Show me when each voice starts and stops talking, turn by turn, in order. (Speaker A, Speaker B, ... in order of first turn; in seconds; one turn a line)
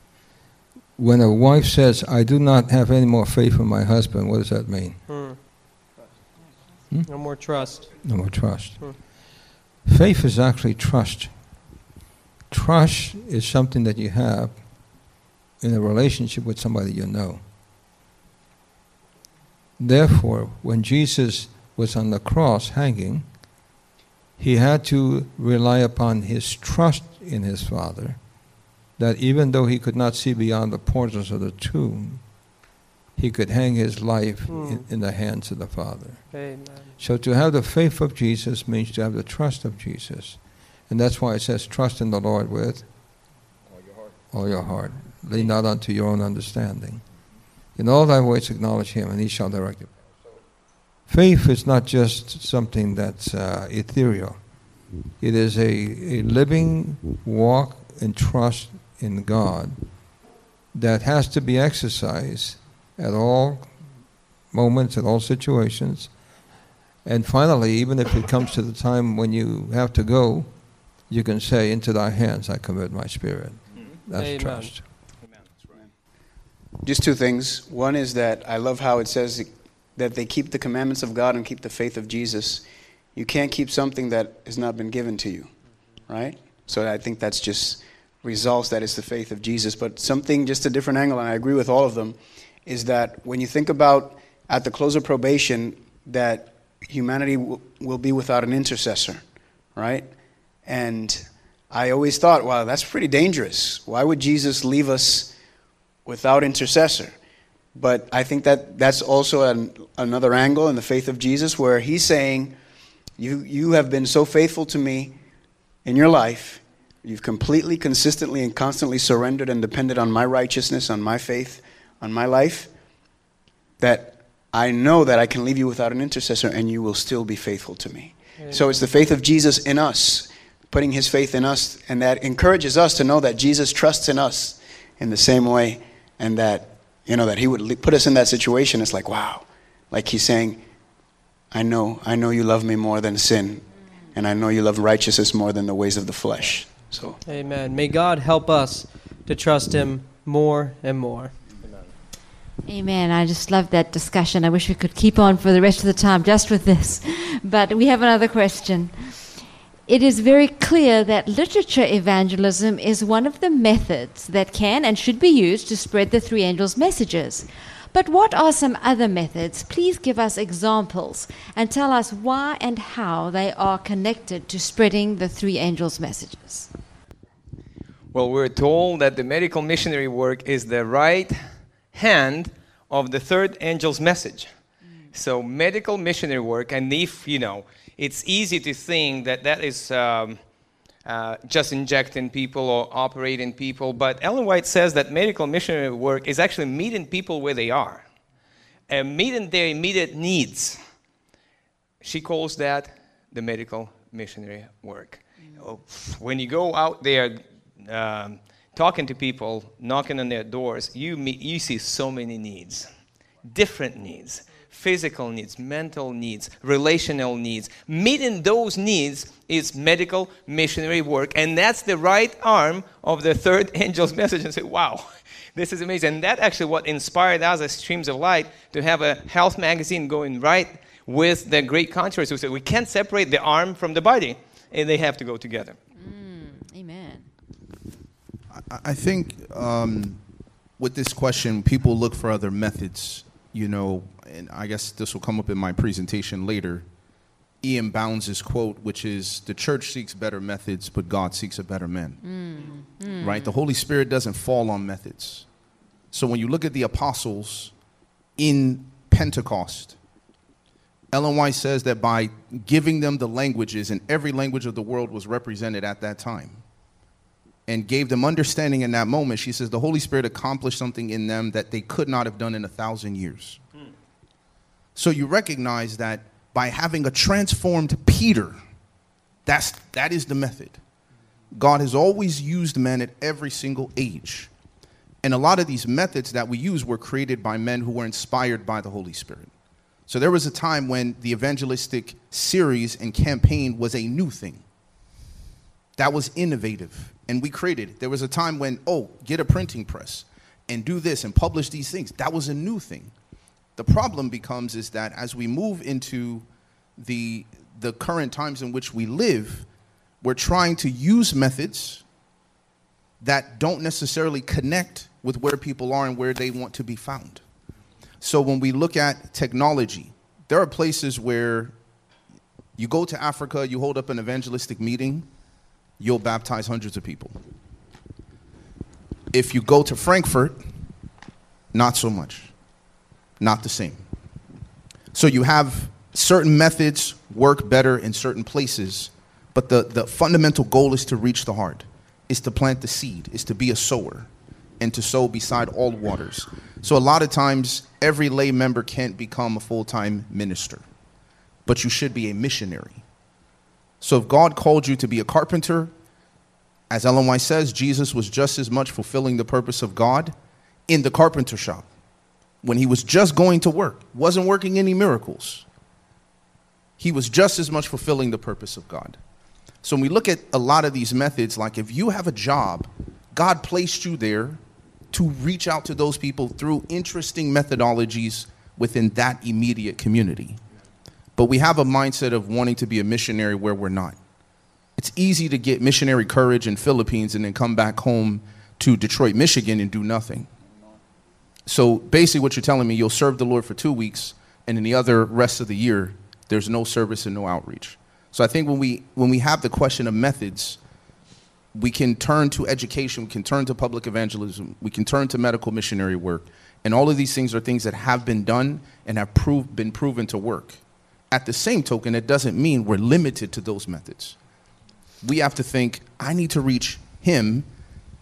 Speaker A: 1.0-5.0
Speaker B: 5.1-5.4
Speaker B: 7.1-8.0
Speaker A: 8.0-11.6
Speaker A: 12.5-17.4
Speaker A: 19.8-23.3
Speaker A: 24.4-28.2
Speaker A: 29.0-32.5
Speaker A: 33.2-42.9
Speaker B: 34.5-34.9
Speaker B: 36.3-36.9
Speaker A: 44.3-47.0
Speaker A: 47.7-49.9
Speaker A: 51.1-59.9
Speaker A: 60.7-63.7
Speaker A: 64.5-66.1
Speaker A: 67.0-74.8
Speaker B: 74.1-74.7
Speaker C: 76.8-82.6
Speaker C: 83.1-85.5
Speaker C: 86.1-99.2
Speaker C: 99.8-100.1
Speaker C: 100.6-105.3
Speaker C: 106.0-107.1
Speaker C: 107.7-112.5
Speaker C: 113.2-115.1
Speaker C: 115.8-122.7
Speaker C: 123.8-140.6
Speaker B: 128.4-128.7
Speaker C: 141.5-147.2
Speaker B: 147.2-151.3
Speaker D: 152.7-159.3
Speaker D: 159.9-176.7
Speaker E: 178.1-181.4
Speaker E: 181.9-184.5
Speaker E: 185.1-190.4
Speaker E: 191.0-198.0
Speaker E: 198.9-200.8
Speaker E: 202.0-212.9
Speaker E: 213.4-235.8
Speaker D: 236.0-237.3
Speaker F: 238.5-240.2
Speaker F: 240.8-246.9
Speaker F: 247.6-252.2
Speaker D: 252.2-253.5
Speaker F: 253.2-255.5
Speaker F: 256.1-257.7
Speaker F: 258.4-260.0
Speaker F: 261.1-266.6
Speaker F: 267.7-273.6
Speaker F: 274.9-278.6
Speaker F: 279.4-280.8
Speaker F: 281.5-284.5
Speaker F: 285.2-289.5
Speaker F: 290.1-294.6
Speaker F: 296.0-303.1
Speaker F: 303.8-309.7
Speaker F: 310.2-312.0
Speaker F: 313.2-317.4
Speaker F: 318.2-321.7
Speaker F: 322.8-325.3
Speaker F: 326.0-327.4
Speaker F: 329.3-330.6
Speaker F: 331.7-332.5
Speaker F: 333.4-334.0
Speaker F: 335.1-350.9
Speaker F: 351.6-353.0
Speaker F: 354.0-355.9
Speaker F: 356.9-360.3
Speaker F: 360.9-361.9
Speaker F: 362.6-365.6
Speaker F: 367.0-369.2
Speaker F: 369.8-374.6
Speaker F: 375.1-380.6
Speaker F: 381.4-384.2
Speaker F: 384.9-390.5
Speaker F: 391.6-400.8
Speaker F: 401.7-414.4
Speaker F: 415.2-417.7